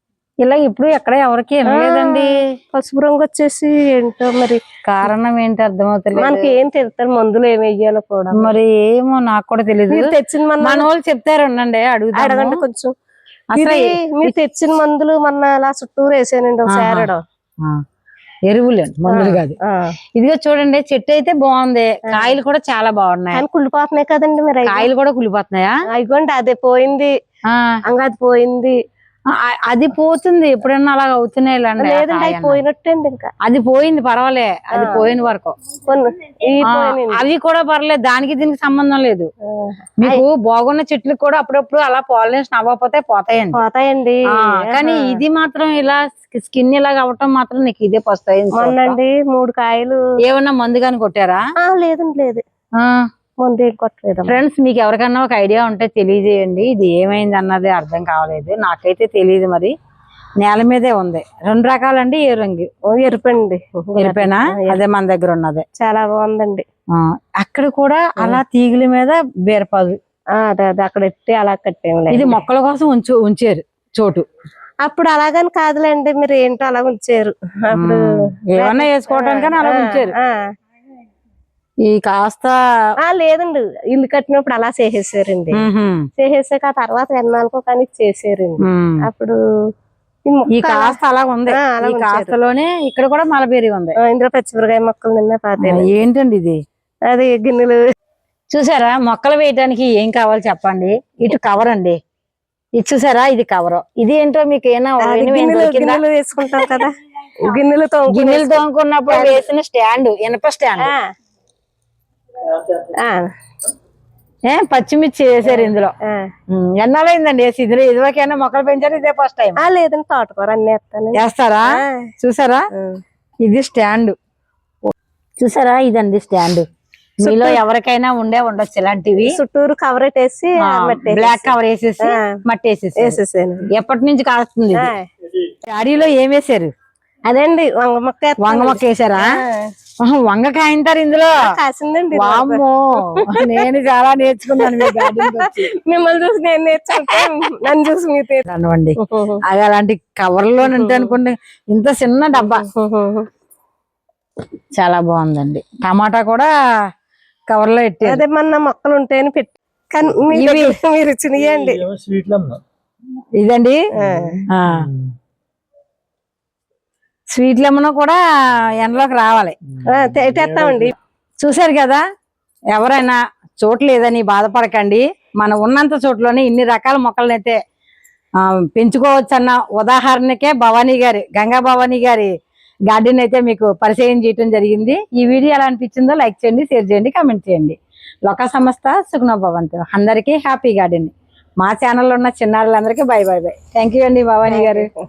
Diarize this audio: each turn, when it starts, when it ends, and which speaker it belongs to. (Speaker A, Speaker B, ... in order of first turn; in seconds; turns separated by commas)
Speaker A: 0.4-2.4, Speaker B: 1.6-4.6, Speaker A: 4.8-6.5, Speaker B: 6.2-8.5, Speaker A: 8.3-12.6, Speaker B: 9.9-10.9, Speaker B: 12.1-12.9, Speaker A: 13.5-14.3, Speaker B: 13.6-17.2, Speaker A: 16.7-17.8, Speaker A: 18.5-19.5, Speaker B: 19.1-19.9, Speaker A: 20.1-23.4, Speaker B: 22.1-22.3, Speaker B: 23.3-24.9, Speaker A: 24.6-25.8, Speaker B: 25.9-27.1, Speaker B: 27.9-28.8, Speaker A: 29.3-32.6, Speaker B: 31.8-33.3, Speaker A: 33.4-35.6, Speaker B: 34.7-35.1, Speaker B: 35.8-37.2, Speaker A: 36.6-39.3, Speaker B: 39.5-40.2, Speaker A: 40.0-43.6, Speaker B: 43.5-45.2, Speaker A: 44.3-49.0, Speaker B: 48.5-50.0, Speaker A: 50.2-51.4, Speaker B: 51.6-52.4, Speaker A: 52.8-53.1, Speaker B: 53.4-54.4, Speaker A: 54.3-59.7, Speaker A: 60.4-62.7, Speaker B: 62.9-64.8, Speaker A: 64.0-65.6, Speaker B: 65.8-66.7, Speaker A: 66.9-70.0, Speaker B: 70.3-72.4, Speaker A: 72.1-74.2, Speaker B: 74.8-80.4, Speaker A: 77.7-80.1, Speaker A: 81.8-82.6, Speaker B: 83.0-85.6, Speaker A: 85.5-86.1, Speaker B: 86.2-89.4, Speaker A: 88.6-89.0, Speaker B: 90.3-91.0, Speaker A: 90.5-94.0, Speaker B: 91.5-92.3, Speaker B: 94.0-96.0, Speaker A: 95.6-96.6, Speaker B: 97.1-97.8, Speaker A: 98.5-102.0, Speaker A: 102.8-106.0, Speaker B: 105.0-109.4, Speaker A: 106.5-106.8, Speaker A: 108.1-110.9, Speaker B: 110.8-111.1, Speaker B: 112.8-113.3, Speaker A: 114.5-115.9, Speaker B: 115.4-116.3, Speaker A: 116.5-119.6, Speaker B: 119.6-122.1, Speaker A: 121.2-122.7, Speaker B: 122.7-123.0, Speaker A: 123.4-124.2, Speaker A: 124.8-126.7, Speaker A: 127.2-129.4, Speaker B: 127.2-127.6, Speaker B: 129.2-132.4, Speaker A: 130.6-133.2, Speaker B: 133.0-133.7, Speaker A: 133.7-134.9, Speaker B: 134.7-135.0, Speaker A: 135.6-136.7, Speaker B: 137.3-139.7, Speaker A: 138.4-139.3, Speaker A: 140.0-141.4, Speaker B: 141.4-143.6, Speaker A: 142.1-145.7, Speaker B: 144.6-148.4, Speaker A: 146.9-147.7, Speaker A: 148.4-152.6, Speaker B: 149.0-149.4, Speaker B: 150.6-151.1, Speaker B: 152.4-153.3, Speaker A: 154.7-156.5, Speaker A: 157.5-158.2, Speaker B: 158.0-161.8, Speaker A: 160.3-160.7, Speaker C: 161.4-162.6, Speaker A: 163.4-163.8, Speaker C: 164.0-165.1, Speaker B: 164.0-164.3, Speaker A: 164.5-164.9, Speaker A: 167.3-168.2, Speaker A: 168.7-169.5, Speaker C: 169.7-170.9, Speaker B: 169.8-170.9, Speaker A: 171.4-172.0, Speaker A: 172.7-177.6, Speaker A: 178.4-182.3, Speaker A: 182.9-194.9, Speaker B: 194.5-194.9